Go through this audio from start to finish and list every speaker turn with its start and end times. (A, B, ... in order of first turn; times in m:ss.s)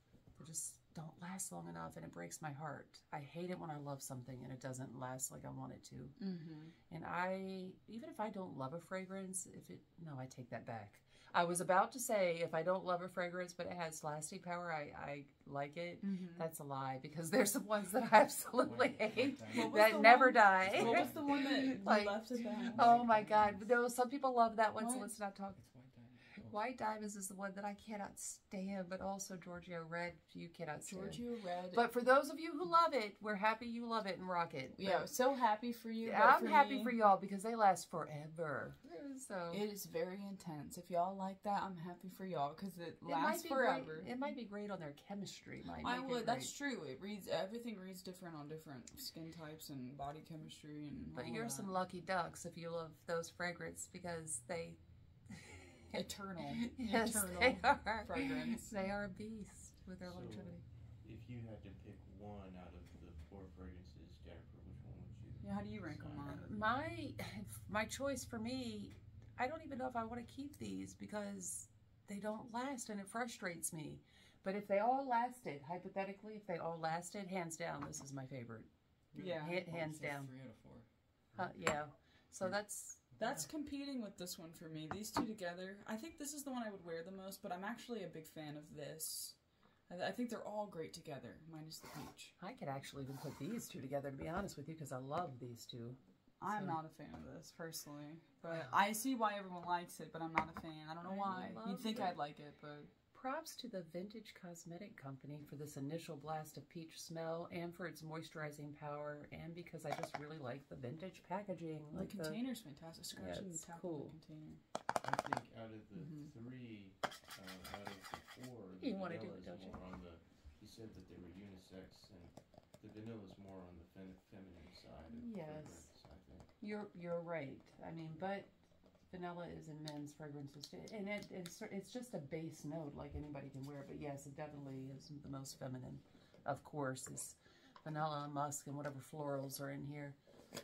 0:00.4-0:06.2 A
0:06.2-0:06.7 B
0:06.9-0:25.6 A
0:16.0-0:16.5 B
0:18.6-0:21.8 C
0:19.5-0:23.0 B
0:22.3-0:23.7 C
0:24.8-0:25.1 B
0:25.6-0:26.6 C
0:26.4-0:35.1 A
0:30.8-0:31.8 B
0:34.7-0:36.9 B
0:36.0-0:39.6 A
0:39.5-0:44.2 B
0:43.0-0:46.5 A
0:45.8-0:51.7 B
0:51.1-0:54.8 A
0:55.3-0:56.0 A
0:55.9-0:58.7 B
0:56.6-1:00.6 A
1:00.0-1:06.6 D
1:05.4-1:06.4 B
1:06.3-1:20.3 A
1:19.1-1:20.9 C
1:19.2-1:19.6 B
1:21.4-1:23.4 A
1:23.2-1:32.3 B
1:32.4-1:36.8 A
1:36.4-1:42.9 B
1:41.0-1:42.2 A
1:43.1-1:52.4 A
1:51.9-1:54.6 B
1:53.2-1:54.2 A
1:55.0-2:06.5 D
1:56.0-1:56.3 B
1:58.8-1:59.8 A
2:05.2-2:05.9 A
2:06.6-2:08.5 A
2:09.1-2:20.2 A